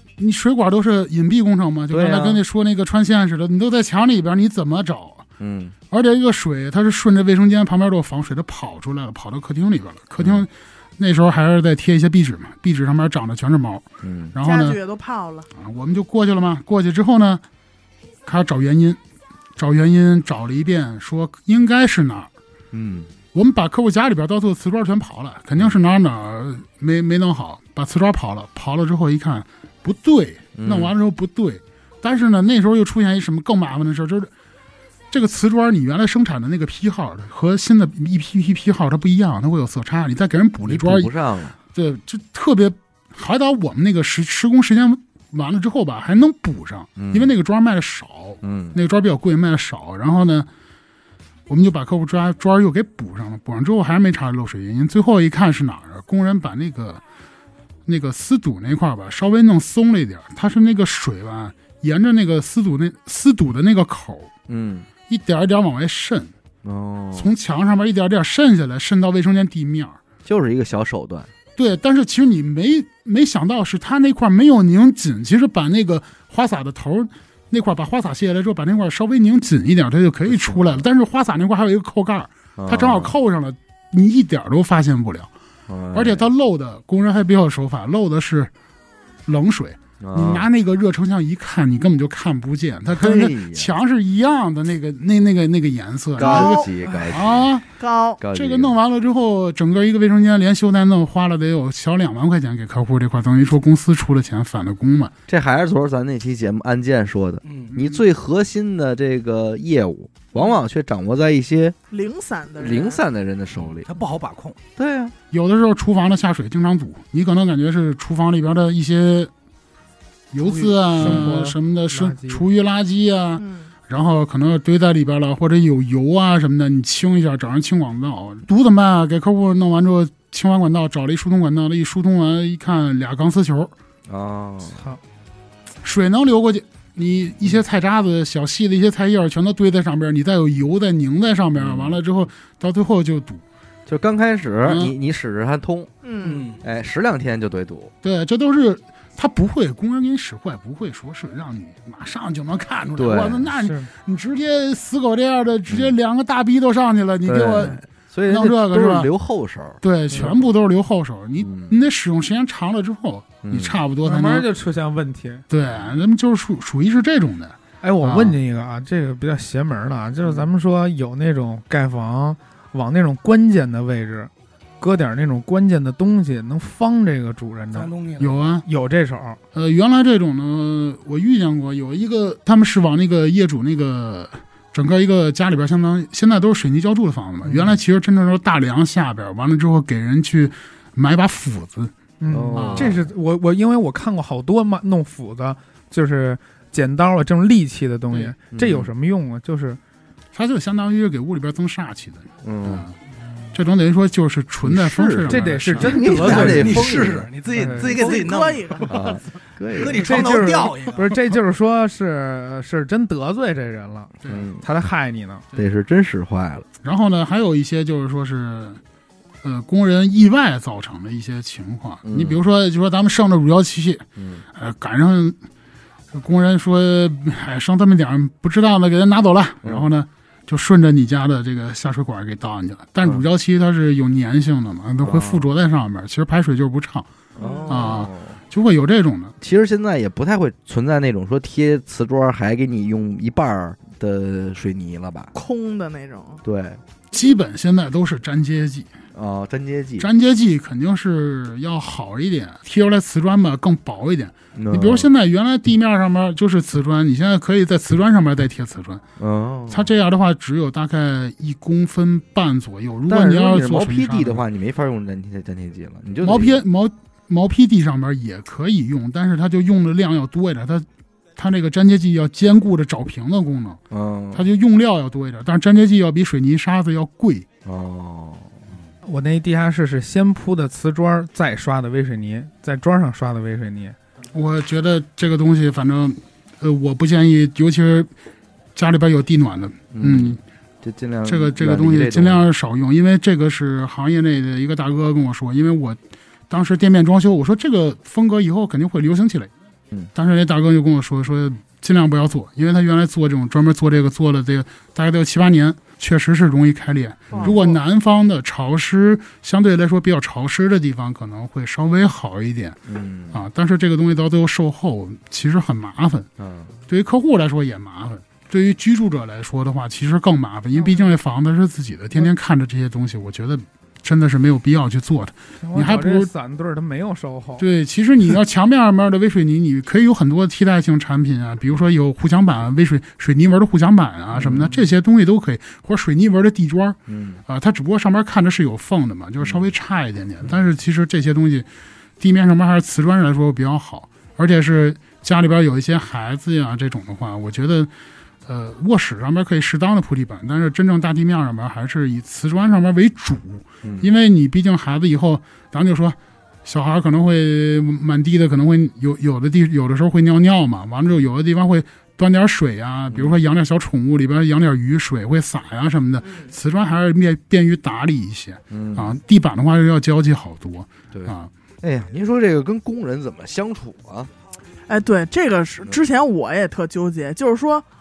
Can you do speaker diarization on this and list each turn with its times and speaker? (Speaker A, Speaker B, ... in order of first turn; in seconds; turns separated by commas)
Speaker A: 0.2-5.3, Speaker B: 1.9-2.4, Speaker B: 5.4-5.7, Speaker A: 5.9-14.8, Speaker B: 10.2-10.5, Speaker B: 14.0-14.3, Speaker C: 14.4-15.5, Speaker A: 15.6-17.4, Speaker A: 18.3-19.0, Speaker A: 19.6-22.3, Speaker B: 22.7-23.1, Speaker A: 23.3-34.3, Speaker B: 30.6-30.9, Speaker A: 35.1-41.1, Speaker B: 40.6-41.6, Speaker A: 41.7-50.5, Speaker B: 47.0-47.3, Speaker B: 48.4-48.8, Speaker A: 51.5-57.0, Speaker A: 57.9-64.3, Speaker B: 64.5-64.9, Speaker A: 65.1-66.3, Speaker B: 66.6-67.3, Speaker A: 67.1-70.0, Speaker B: 70.2-71.3, Speaker A: 71.6-85.3, Speaker B: 80.3-80.8, Speaker B: 82.6-83.2, Speaker B: 85.7-86.3, Speaker A: 85.9-88.5, Speaker A: 89.3-97.7, Speaker B: 90.0-90.5, Speaker B: 92.9-93.7, Speaker C: 96.2-96.7, Speaker B: 96.2-97.5, Speaker C: 97.8-98.2, Speaker B: 98.2-98.8, Speaker A: 98.3-105.1, Speaker B: 105.3-111.8, Speaker D: 107.4-107.8, Speaker C: 111.9-113.0, Speaker B: 112.6-113.9, Speaker D: 113.9-114.6, Speaker B: 114.8-115.2, Speaker A: 115.3-119.3, Speaker A: 120.3-133.7, Speaker E: 120.4-122.4, Speaker B: 121.0-121.3, Speaker C: 123.4-123.7, Speaker B: 134.1-134.8, Speaker A: 135.8-143.4, Speaker B: 141.5-142.0, Speaker B: 143.9-145.9, Speaker A: 144.7-144.9, Speaker C: 146.0-146.4, Speaker D: 146.2-146.6, Speaker B: 146.6-147.9, Speaker A: 148.0-159.1, Speaker B: 153.0-153.5, Speaker E: 153.6-153.9, Speaker B: 155.7-155.9, Speaker B: 157.2-160.3, Speaker A: 159.8-164.5, Speaker E: 160.1-160.4, Speaker B: 161.4-161.8, Speaker B: 163.4-163.8, Speaker E: 164.0-165.4, Speaker A: 165.5-168.4, Speaker B: 165.7-165.9, Speaker E: 167.8-174.3, Speaker E: 174.8-177.9, Speaker D: 177.7-178.4, Speaker A: 178.2-178.7, Speaker E: 178.7-179.4, Speaker A: 179.5-192.0, Speaker E: 187.4-187.8, Speaker E: 192.2-199.8, Speaker B: 192.3-193.1, Speaker A: 192.5-193.0, Speaker B: 198.5-198.9, Speaker A: 200.3-202.9, Speaker B: 202.4-202.9, Speaker A: 203.5-206.6, Speaker B: 204.6-207.3, Speaker E: 205.3-206.9, Speaker D: 206.2-208.9, Speaker E: 207.5-208.0, Speaker C: 207.9-209.0, Speaker B: 208.9-210.3, Speaker D: 209.8-211.1, Speaker E: 209.9-215.4, Speaker A: 214.2-214.5, Speaker B: 214.2-214.7, Speaker B: 215.5-216.7, Speaker A: 216.8-218.8, Speaker A: 219.4-225.4, Speaker B: 222.0-222.4, Speaker B: 224.2-224.4, Speaker A: 226.1-237.1, Speaker B: 229.6-229.9, Speaker B: 235.0-235.5, Speaker B: 237.4-238.4, Speaker C: 237.4-238.1, Speaker A: 237.7-239.3, Speaker B: 239.4-245.3, Speaker C: 245.3-246.4, Speaker B: 246.4-246.8, Speaker A: 247.1-248.9, Speaker B: 249.1-250.1, Speaker A: 250.0-259.0, Speaker B: 254.5-255.1, Speaker B: 259.2-259.9, Speaker A: 259.7-264.4, Speaker B: 263.1-266.6, Speaker A: 266.2-270.9, Speaker A: 271.4-273.8, Speaker B: 273.9-274.5, Speaker A: 274.3-277.5, Speaker B: 277.6-278.6, Speaker E: 279.0-284.0, Speaker A: 284.3-288.1, Speaker A: 288.8-290.4, Speaker B: 289.9-292.5, Speaker A: 291.2-296.0, Speaker A: 296.5-299.5, Speaker A: 300.1-312.8, Speaker B: 307.3-307.7, Speaker C: 307.3-307.8, Speaker B: 312.9-313.4, Speaker A: 313.3-316.3, Speaker B: 316.4-316.7, Speaker A: 316.9-326.3, Speaker E: 320.8-321.1, Speaker E: 325.6-327.6, Speaker A: 327.6-341.7, Speaker B: 334.4-334.8, Speaker B: 337.1-337.4, Speaker B: 339.4-339.7, Speaker A: 342.2-347.9, Speaker A: 348.5-371.5, Speaker B: 353.8-354.1, Speaker B: 363.1-363.4, Speaker B: 368.7-369.1, Speaker B: 371.1-374.3, Speaker C: 374.9-377.9